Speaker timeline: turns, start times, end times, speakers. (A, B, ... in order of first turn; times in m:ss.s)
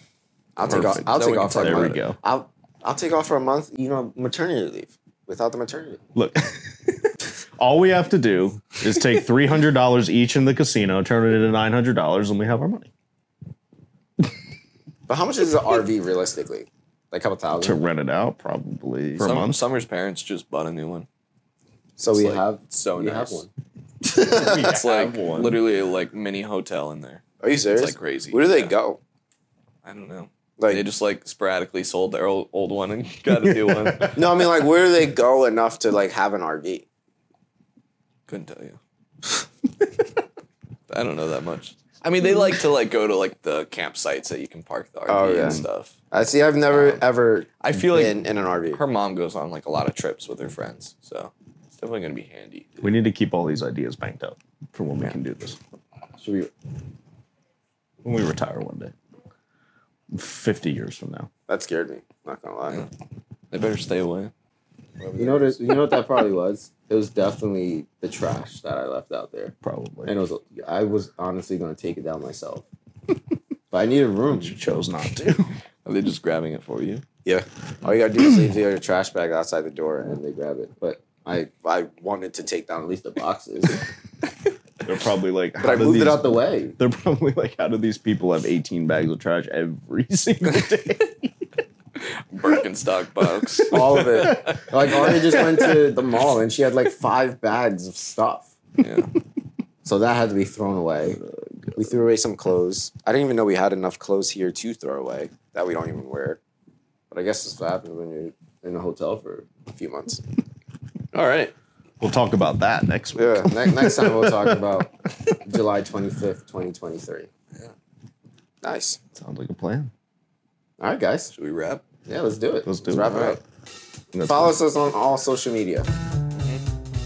0:00.6-0:06.0 A
0:00.6-0:02.0 B
0:00.7-0:02.2 C
0:06.2-0:12.9 C
0:15.1-0:17.8 A
0:17.6-0:19.6 C
0:19.2-0:21.1 B
0:22.0-0:23.5 A
0:22.2-0:23.4 B
0:24.0-0:24.7 A
0:24.2-0:25.6 C
0:24.5-0:28.7 B
0:27.4-0:29.0 A
0:29.8-0:34.2 B
0:30.6-0:30.8 A
0:33.4-0:34.2 C
0:34.1-0:36.8 A
0:38.3-0:38.8 B
0:40.9-0:46.0 B
0:45.1-0:48.8 A
0:46.7-0:47.0 B
0:47.6-0:52.9 B
0:52.8-0:55.6 C
0:56.2-0:56.5 A
0:58.0-0:58.9 C
1:00.1-1:01.3 C
1:01.5-1:02.9 A
1:03.5-1:04.3 B
1:05.0-1:05.8 B
1:05.2-1:09.5 A
1:09.6-1:10.1 C
1:10.0-1:12.7 A
1:13.7-1:14.6 A
1:14.3-1:15.5 C
1:15.8-1:17.0 B
1:17.2-1:23.8 A
1:24.9-1:31.3 C
1:25.6-1:26.8 A
1:32.0-1:34.6 B
1:33.7-1:38.5 A
1:33.7-1:35.4 C
1:38.8-1:39.1 B
1:39.8-1:41.2 A
1:41.2-1:41.8 C
1:41.8-1:46.4 A
1:47.1-1:50.2 A
1:51.2-1:51.5 B
1:52.0-1:54.6 C
1:53.2-1:54.9 A
1:55.4-1:57.3 A
1:58.6-1:59.0 A
1:59.2-1:59.9 C
2:00.8-2:01.3 A
2:01.3-2:01.8 B
2:02.1-2:03.4 A
2:02.7-2:03.4 C
2:04.1-2:04.6 C
2:04.2-2:05.9 A
2:06.4-2:06.6 B